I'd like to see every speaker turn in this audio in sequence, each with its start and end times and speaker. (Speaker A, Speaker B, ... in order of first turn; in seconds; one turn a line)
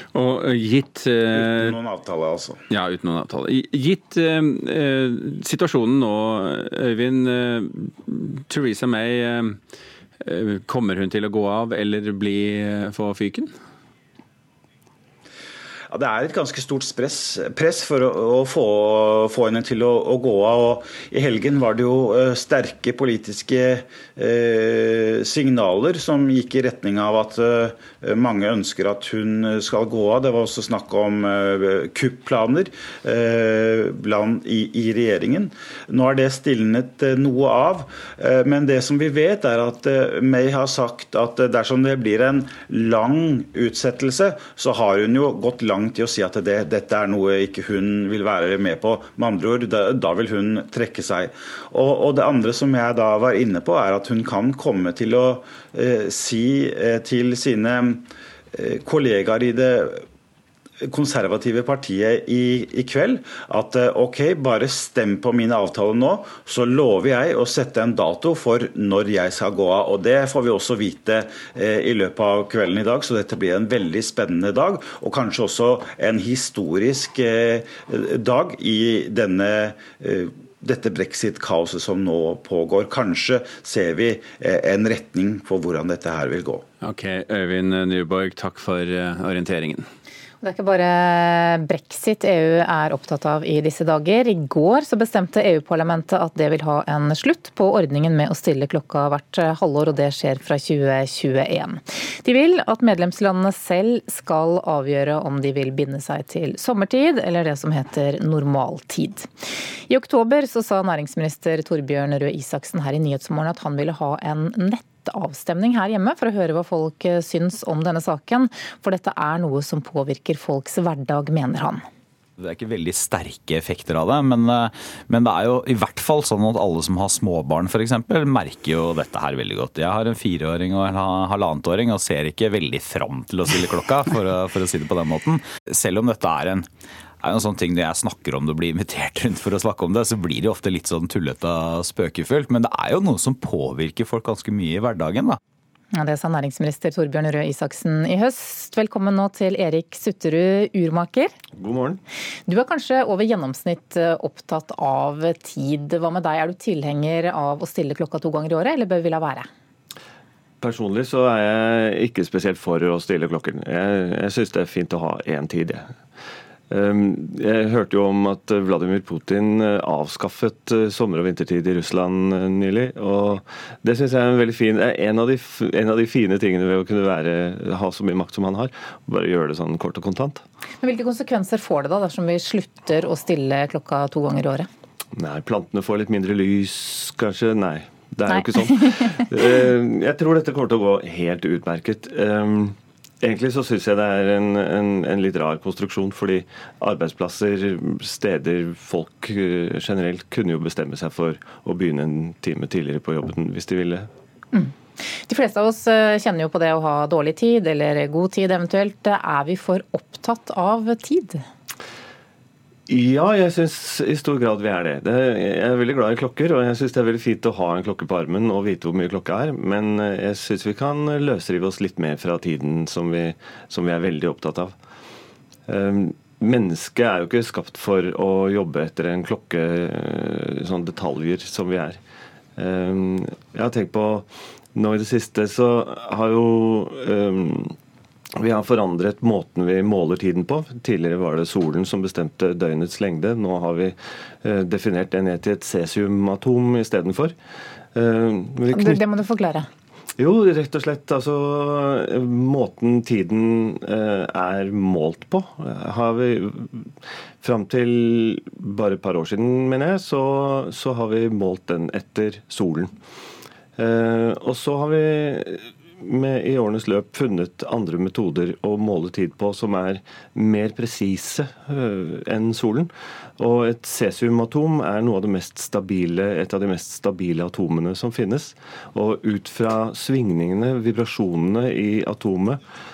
Speaker A: 0.1-1.8
Speaker B: 1.3-2.6
Speaker A: 2.7-9.6
Speaker A: 10.2-13.5
Speaker B: 15.9-60.0
Speaker B: 60.8-86.6
Speaker A: 86.8-89.8
Speaker C: 90.4-109.3
Speaker C: 109.9-121.8
Speaker D: 122.4-136.7
Speaker D: 137.2-145.4
Speaker C: 145.9-151.3
Speaker E: 151.6-152.0
Speaker C: 152.5-159.5
Speaker E: 160.6-165.9
Speaker E: 166.7-180.4
Speaker C: 180.8-184.7
Speaker E: 185.1-204.1
Speaker C: 204.5-211.4
Speaker E: 212.9-224.7
Speaker E: 225.7-232.0
Speaker E: 232.6-237.8
Speaker E: 238.4-247.3
Speaker E: 247.9-249.0
Speaker C: 248.7-249.7
Speaker E: 250.2-256.9
Speaker E: 257.4-262.9
Speaker E: 263.8-282.6